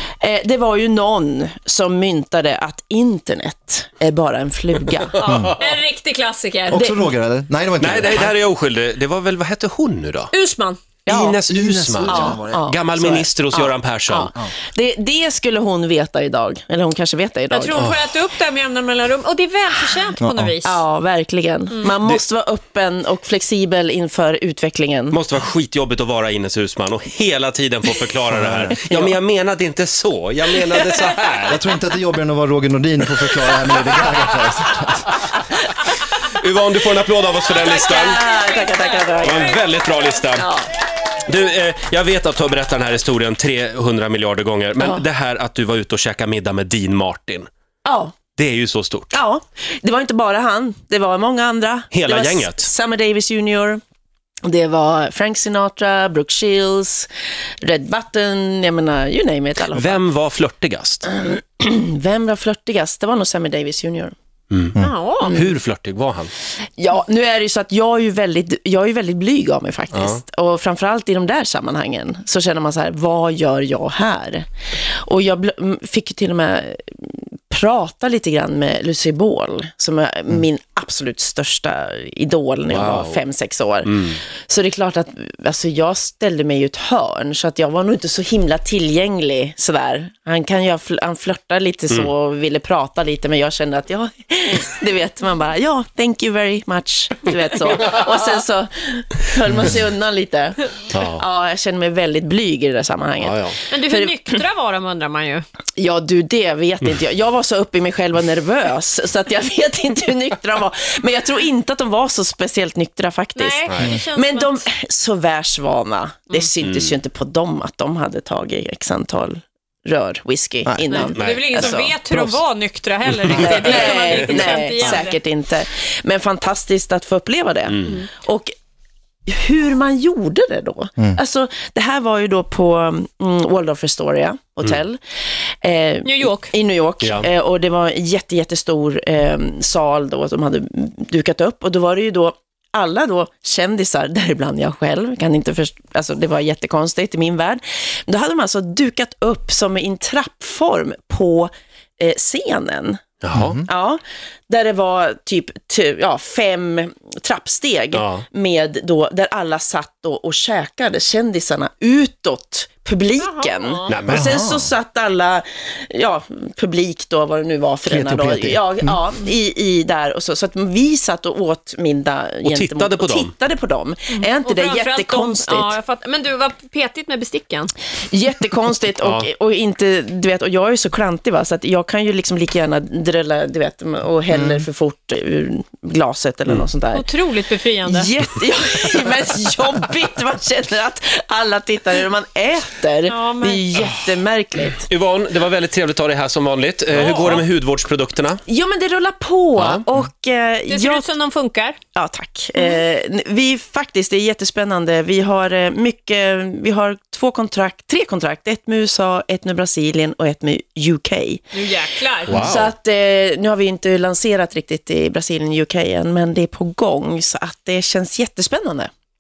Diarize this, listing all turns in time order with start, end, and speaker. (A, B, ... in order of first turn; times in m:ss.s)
0:00.2-0:05.3 A
0:05.2-0:05.6 B
0:05.6-0:06.8 C
0:06.7-0:08.3 B
0:06.7-0:07.1 A
0:07.8-0:10.3 D
0:10.3-0:10.8 C
0:11.1-0:14.3 D
0:11.1-0:11.4 A
0:11.5-0:12.7 B
0:12.0-0:17.8 A
0:17.5-0:20.8 C
0:20.2-0:20.6 B
0:20.6-0:25.2 A
0:25.1-0:31.6 D
0:28.4-0:28.8 B
0:31.5-0:35.2 B
0:36.4-0:38.2 D
0:37.6-0:40.0 C
0:37.7-0:39.5 A
0:39.2-0:40.5 D
0:40.4-0:40.7 A
0:41.2-0:47.5 D
0:47.8-0:48.2 A
0:48.4-0:49.2 D
0:49.1-0:53.8 A
0:51.9-0:52.7 D
0:54.4-0:57.1 A
0:57.6-1:00.1 A
0:59.7-1:01.1 D
1:01.1-1:04.1 A
1:04.5-1:04.8 D
1:04.8-1:05.4 C
1:05.2-1:05.5 A
1:05.3-1:06.3 D
1:06.8-1:44.4 A
1:09.9-1:10.2 D
1:22.7-1:23.2 D
1:23.8-1:24.2 D
1:40.9-1:41.2 D
1:43.2-1:43.6 D
1:43.7-1:45.4 C
1:45.8-2:02.3 A
1:53.4-1:54.7 C
1:56.6-1:57.0 D
2:00.7-2:01.1 B
2:00.9-2:05.2 C
2:01.1-2:01.9 D
2:03.3-2:08.5 A
2:04.0-2:04.4 D
2:09.3-2:15.0 A
2:15.6-2:33.0 A
2:16.0-2:16.5 C
2:17.0-2:17.3 D
2:33.2-2:33.6 D
2:33.3-2:33.6 B
2:33.6-2:55.8 A
2:37.9-2:38.2 D
2:43.2-2:43.9 C
2:43.9-2:44.3 D
2:44.1-2:44.7 B
2:47.8-2:49.0 B
2:52.5-2:53.3 D
2:54.1-2:57.7 C
2:58.0-3:07.1 A
2:59.0-2:59.3 D
3:04.3-3:04.6 B
3:06.9-3:08.1 C
3:07.8-3:14.9 A
3:13.1-3:13.9 C
3:14.9-3:18.4 D
3:17.0-3:17.4 C
3:18.5-3:21.1 A
3:19.6-3:19.9 D
3:20.7-3:21.8 C
3:22.0-3:31.5 A
3:31.5-3:32.4 C
3:32.2-3:38.9 A
3:32.3-3:32.7 D